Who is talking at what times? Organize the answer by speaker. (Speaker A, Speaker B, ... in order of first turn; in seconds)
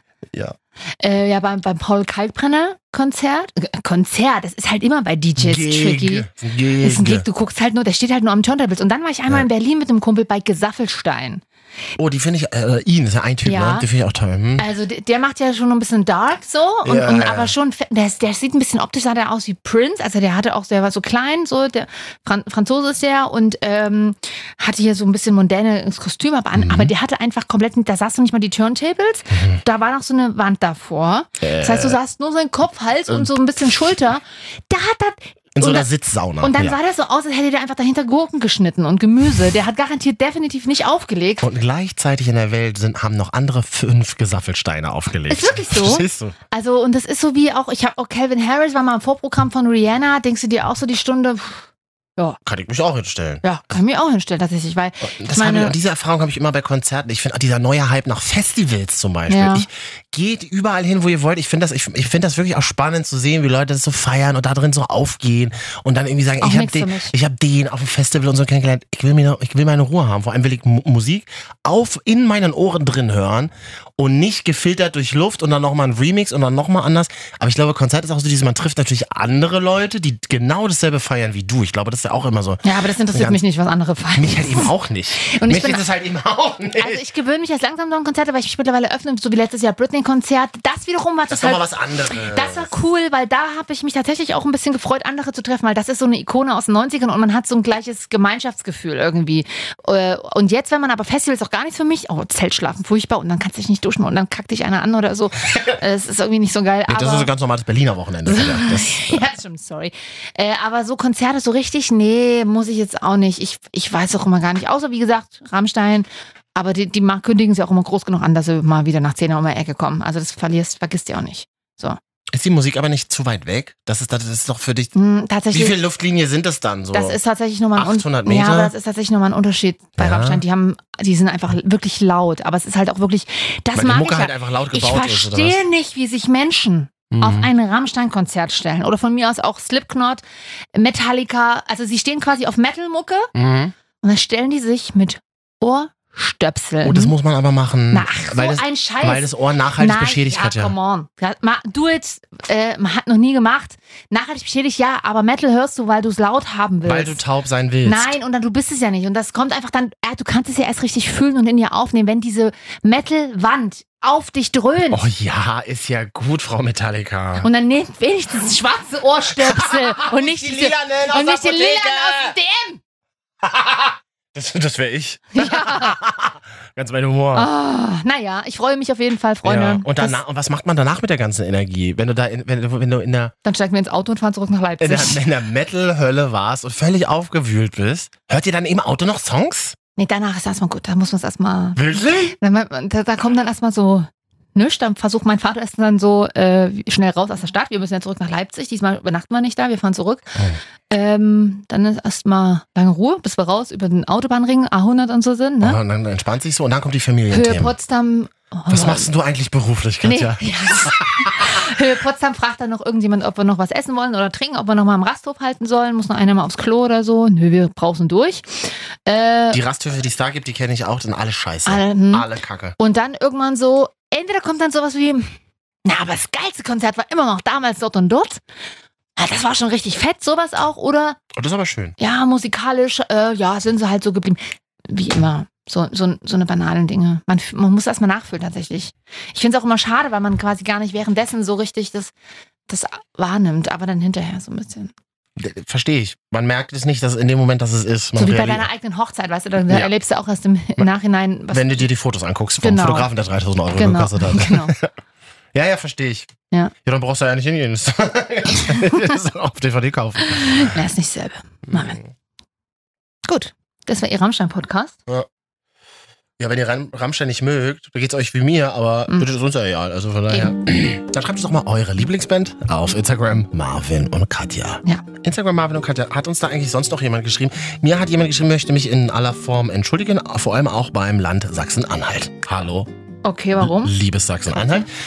Speaker A: 1.0-6.3, 6.8-11.4, 13.4-13.9, 14.6-35.9, 36.4-41.5, 45.3-52.4, 53.4-55.8, 59.3-59.7, 66.4-67.1, 82.6-85.8, 86.8-107.3, 108.3-122.0, 125.0-125.8, 126.9-140.2, 140.8-143.3, 144.0-147.1, 147.9-157.2, 157.8-165.0, 167.4-172.8, 175.4-176.0, 177.3-180.2, 183.4-185.2, 190.0-200.4, 200.9-205.8, 207.3-209.1, 210.0-219.6, 221.7-225.3, 225.8-228.4, 229.2-231.2, 232.0-242.1, 242.7-244.9, 248.2-251.9, 252.6-253.1, 253.8-254.8, 260.3-262.0, 263.3-264.9, 283.2-283.9
Speaker B: 5.4-7.2, 12.0-14.7, 16.8-17.5, 26.6-26.9, 29.3-29.6, 31.4-32.0, 35.6-36.8, 41.4-46.4, 52.5-53.4, 55.0-83.4, 84.2-87.0, 91.3-92.7, 106.9-109.2, 122.3-124.9, 125.5-127.2, 127.8-128.7, 130.0-130.4, 133.7-135.6, 137.1-137.5, 143.3-143.7, 146.8-150.7, 156.8-158.2, 164.9-167.5, 169.4-172.4, 173.4-177.5, 179.4-183.3, 184.8-189.8, 191.8-192.3, 205.6-207.7, 208.7-211.7, 219.5-222.8, 231.3-232.0, 245.4-248.7, 251.5-254.9, 255.5-256.3, 256.8-260.8, 261.7-262.1, 266.4-282.9, 283.6-284.9